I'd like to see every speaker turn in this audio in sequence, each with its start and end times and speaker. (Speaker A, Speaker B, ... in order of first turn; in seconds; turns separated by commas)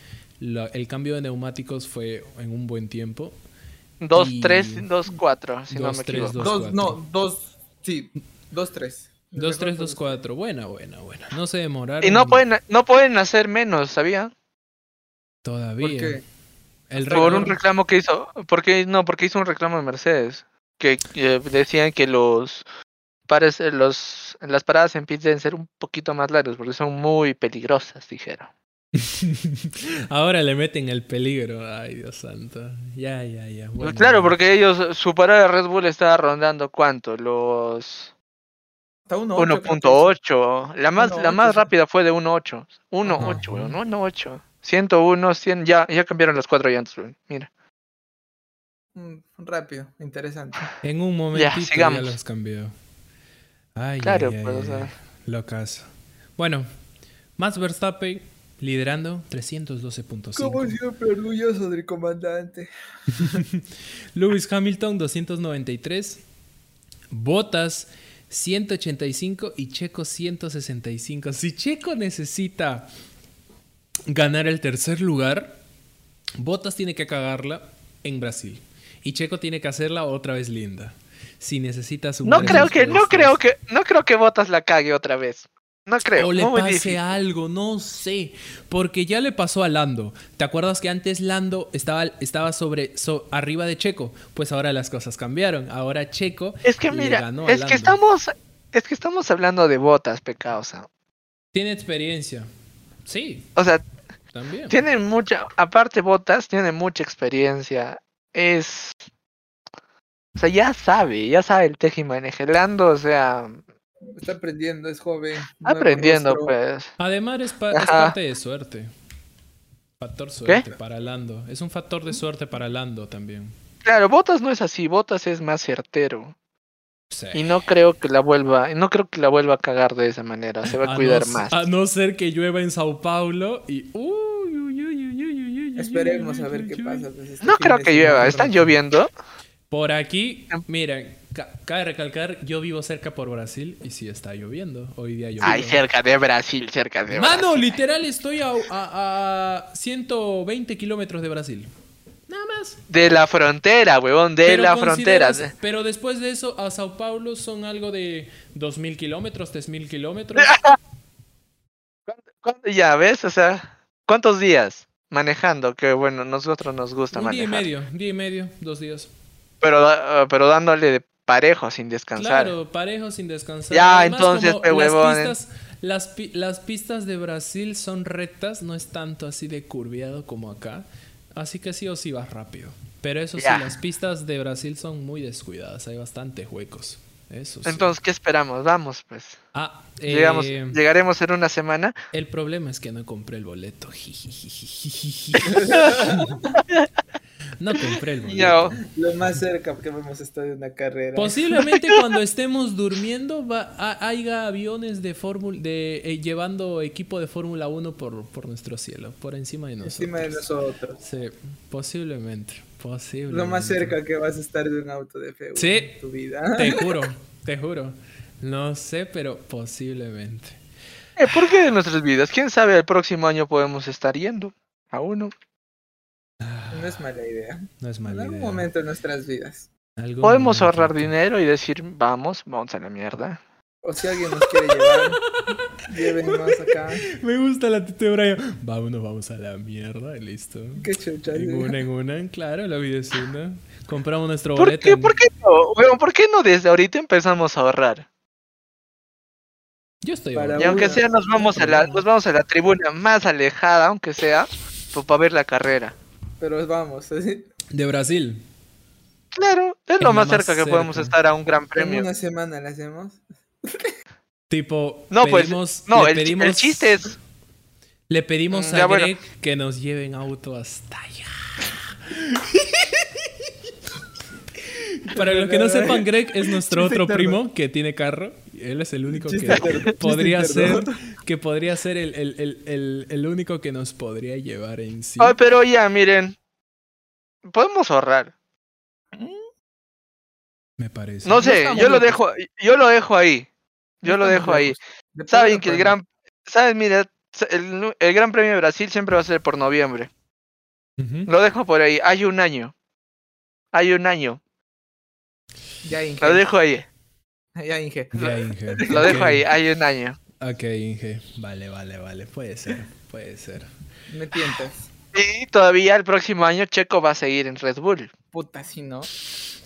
Speaker A: 0.4-3.4, Speaker B: 4.0-6.4, Speaker A: 4.2-4.9, Speaker A: 5.7-7.0, Speaker C: 6.4-10.2, Speaker A: 9.3-12.4, Speaker B: 12.0-14.3, Speaker A: 15.4-16.2, Speaker C: 15.8-16.2, Speaker A: 16.9-17.6, Speaker C: 16.9-17.6, Speaker B: 17.1-22.7, Speaker B: 23.3-28.5, Speaker A: 28.9-34.4, Speaker B: 33.8-38.1, Speaker C: 39.1-40.1, Speaker B: 39.4-47.5, Speaker C: 41.0-41.7, Speaker C: 43.0-43.4, Speaker A: 43.2-43.8, Speaker C: 49.0-50.7, Speaker A: 50.8-52.7, Speaker B: 51.3-52.1, Speaker A: 53.8-56.7, Speaker B: 54.0-54.9, Speaker A: 57.4-60.7, Speaker C: 60.4-63.4, Speaker A: 63.1-66.2, Speaker A: 67.1-72.9, Speaker A: 74.1-75.6, Speaker A: 76.4-83.4, Speaker B: 82.2-87.0, Speaker C: 82.3-82.7, Speaker A: 86.1-98.0, Speaker B: 96.7-100.9, Speaker A: 101.5-102.5, Speaker A: 103.0-103.5, Speaker B: 103.6-103.8, Speaker A: 104.3-104.8, Speaker B: 104.7-109.0, Speaker B: 110.4-113.6, Speaker C: 114.2-116.5, Speaker B: 115.6-116.9, Speaker A: 117.0-118.9, Speaker B: 117.7-118.2, Speaker A: 120.0-123.5, Speaker B: 123.8-126.3, Speaker A: 127.1-127.6, Speaker B: 127.3-131.5, Speaker A: 130.7-137.1, Speaker C: 135.8-138.6, Speaker B: 137.4-139.1, Speaker A: 139.7-145.8, Speaker B: 145.4-147.8, Speaker A: 147.1-151.7, Speaker A: 152.3-152.8, Speaker B: 152.9-155.5, Speaker A: 154.4-160.6, Speaker B: 160.4-160.8, Speaker B: 162.1-167.7, Speaker A: 167.1-169.1, Speaker B: 169.6-172.5, Speaker A: 172.2-187.9, Speaker B: 173.7-175.3, Speaker B: 183.4-183.7, Speaker B: 187.7-189.4, Speaker A: 189.6-190.8, Speaker B: 190.1-192.0, Speaker A: 192.1-196.4, Speaker C: 195.4-196.6, Speaker B: 196.6-196.9, Speaker A: 197.6-199.4, Speaker B: 198.0-198.8, Speaker C: 198.8-201.5, Speaker A: 201.2-210.5, Speaker B: 201.7-202.0, Speaker C: 209.8-211.0, Speaker A: 211.0-214.0, Speaker C: 213.3-217.1, Speaker A: 215.6-216.0, Speaker A: 216.5-220.6, Speaker B: 221.2-225.3, Speaker A: 226.4-227.0, Speaker C: 226.7-229.7, Speaker A: 227.8-228.7, Speaker A: 230.0-231.1, Speaker B: 230.2-233.4, Speaker C: 233.8-235.2, Speaker A: 234.4-235.6, Speaker C: 235.9-237.1, Speaker A: 236.3-245.2, Speaker C: 240.8-241.8, Speaker B: 244.6-248.1, Speaker A: 250.0-252.0, Speaker C: 250.3-251.1, Speaker B: 250.6-256.0, Speaker C: 256.4-257.5, Speaker A: 257.7-258.4, Speaker B: 259.3-262.1, Speaker A: 260.0-261.1, Speaker C: 261.8-263.9, Speaker A: 264.5-267.1, Speaker B: 265.1-267.2, Speaker A: 268.1-273.3, Speaker B: 268.5-269.1, Speaker A: 274.6-285.4, Speaker C: 275.1-277.4, Speaker C: 279.1-280.9, Speaker B: 285.2-286.4, Speaker B: 287.5-288.3, Speaker C: 289.1-289.4, Speaker A: 290.8-291.6, Speaker B: 291.2-293.5, Speaker C: 291.4-292.2, Speaker B: 294.0-294.8, Speaker C: 294.1-296.0, Speaker B: 295.3-300.1, Speaker A: 301.0-301.3, Speaker B: 301.3-302.7, Speaker B: 303.7-304.4, Speaker C: 305.8-306.4, Speaker B: 306.2-306.9, Speaker C: 307.6-309.2, Speaker A: 308.1-309.5, Speaker B: 308.9-310.2, Speaker A: 310.4-313.7, Speaker C: 314.1-314.9, Speaker B: 315.1-318.1, Speaker C: 318.3-319.1